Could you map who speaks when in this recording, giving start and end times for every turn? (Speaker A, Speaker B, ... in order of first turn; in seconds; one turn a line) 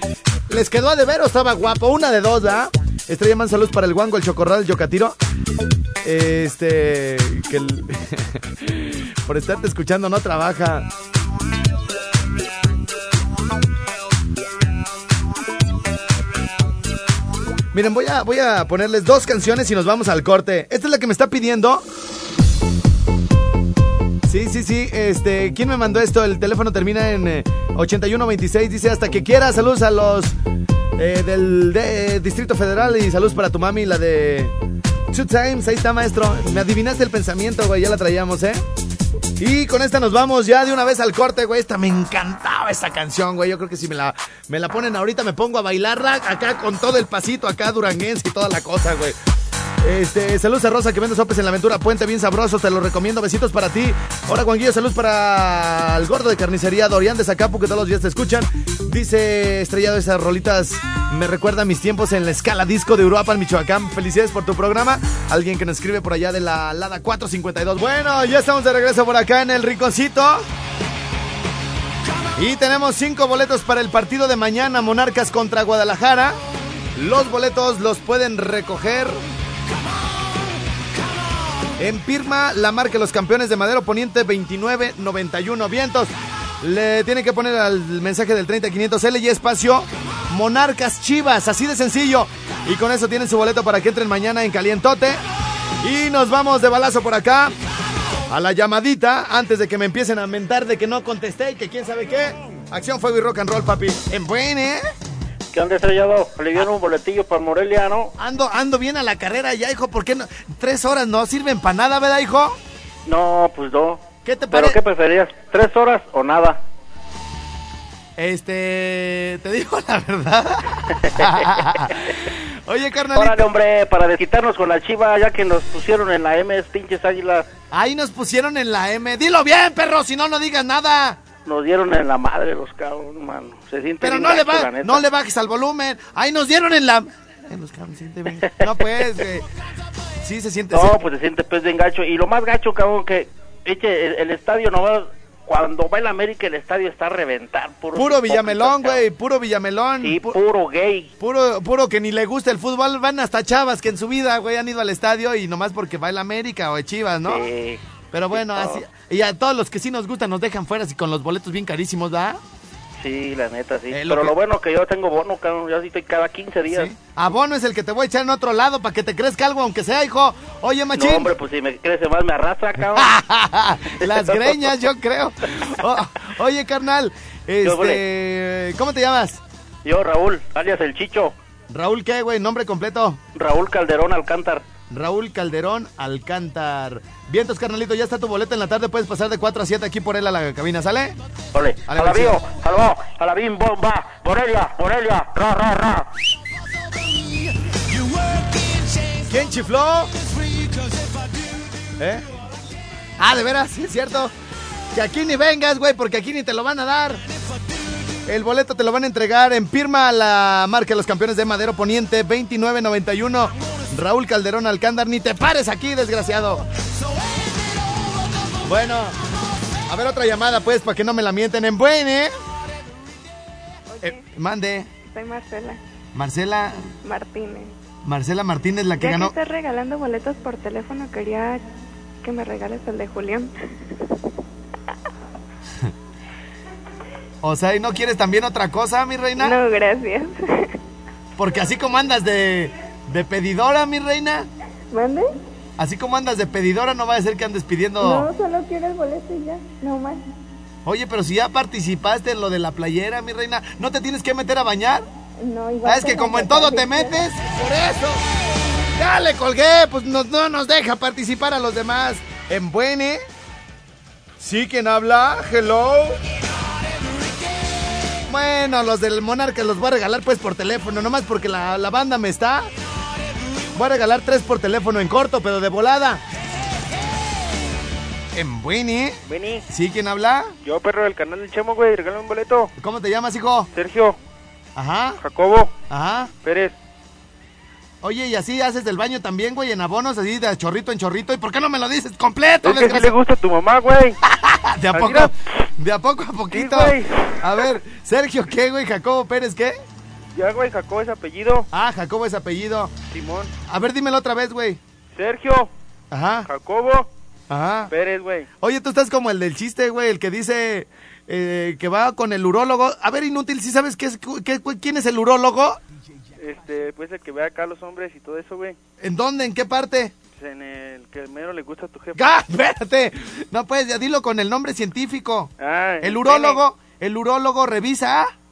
Speaker A: 0.5-5.2
Speaker A: 6.0-10.9
Speaker A: 17.7-21.8
Speaker A: 24.3-30.3
Speaker A: 31.0-34.5
Speaker A: 35.1-38.6
Speaker A: 39.4-49.2
Speaker A: 49.8-70.4
Speaker A: 72.4-76.4
Speaker A: 77.0-79.2
Speaker A: 81.8-95.2
Speaker A: 95.8-97.5
Speaker A: 98.3-104.8
Speaker B: 105.5-108.1
Speaker A: 108.2-112.6
Speaker B: 113.0-116.6
Speaker A: 114.2-114.8
Speaker A: 118.2-123.5
Speaker B: 121.1-121.4
Speaker B: 123.1-127.5
Speaker A: 127.7-131.2
Speaker B: 131.4-135.0
Speaker A: 134.0-139.4
Speaker A: 140.2-141.0
Speaker B: 140.7-149.0
Speaker A: 147.9-150.4
Speaker B: 150.0-151.1
Speaker A: 151.2-157.4
Speaker B: 157.2-157.8
Speaker A: 158.1-162.4
Speaker B: 158.3-158.8
Speaker B: 163.0-166.9
Speaker A: 163.9-164.3
Speaker A: 166.7-171.3
Speaker B: 170.9-173.1
Speaker A: 172.9-179.4
Speaker B: 174.0-174.6
Speaker B: 177.6-178.0
Speaker B: 179.8-181.3
Speaker A: 181.7-183.2
Speaker B: 183.3-184.7
Speaker A: 184.9-191.2
Speaker B: 191.5-196.2
Speaker A: 191.9-192.4
Speaker A: 199.2-200.1
Speaker A: 202.0-202.2
Speaker A: 203.2-204.3
Speaker A: 204.9-207.2
Speaker A: 208.3-216.7
Speaker A: 218.6-219.2
Speaker A: 219.9-222.3
Speaker C: 223.9-224.2
Speaker A: 224.0-224.9
Speaker C: 225.0-225.8
Speaker A: 226.1-226.8
Speaker C: 227.0-227.7
Speaker A: 228.1-229.3
Speaker C: 229.0-231.6
Speaker C: 232.2-233.5
Speaker A: 237.4-239.6
Speaker C: 239.4-240.7
Speaker A: 241.4-244.5
Speaker C: 244.9-245.3
Speaker A: 245.8-248.3
Speaker C: 248.0-250.2
Speaker A: 250.8-255.0
Speaker C: 255.4-257.3
Speaker A: 255.8-258.2
Speaker A: 258.9-263.2
Speaker A: 264.4-266.2
Speaker A: 268.3-272.7
Speaker A: 273.7-276.2
Speaker A: 278.3-280.5
Speaker B: 279.3-279.6
Speaker B: 280.6-282.7
Speaker A: 282.8-283.7
Speaker B: 283.7-284.2
Speaker A: 284.8-285.2
Speaker B: 285.2-285.7
Speaker A: 285.9-286.3
Speaker B: 286.4-286.7
Speaker A: 288.0-293.1
Speaker B: 292.6-294.1
Speaker A: 294.2-299.7
Speaker B: 294.9-295.3
Speaker B: 296.5-297.7
Speaker B: 300.3-301.7
Speaker A: 301.7-302.9
Speaker B: 303.1-303.5
Speaker A: 303.7-304.8
Speaker B: 305.2-305.7
Speaker A: 306.1-306.5
Speaker B: 306.5-307.1
Speaker A: 307.5-307.9
Speaker B: 307.9-308.5
Speaker A: 308.6-315.8
Speaker B: 316.4-318.8
Speaker A: 319.0-320.1
Speaker B: 320.4-322.4
Speaker A: 322.1-328.3
Speaker B: 325.6-326.6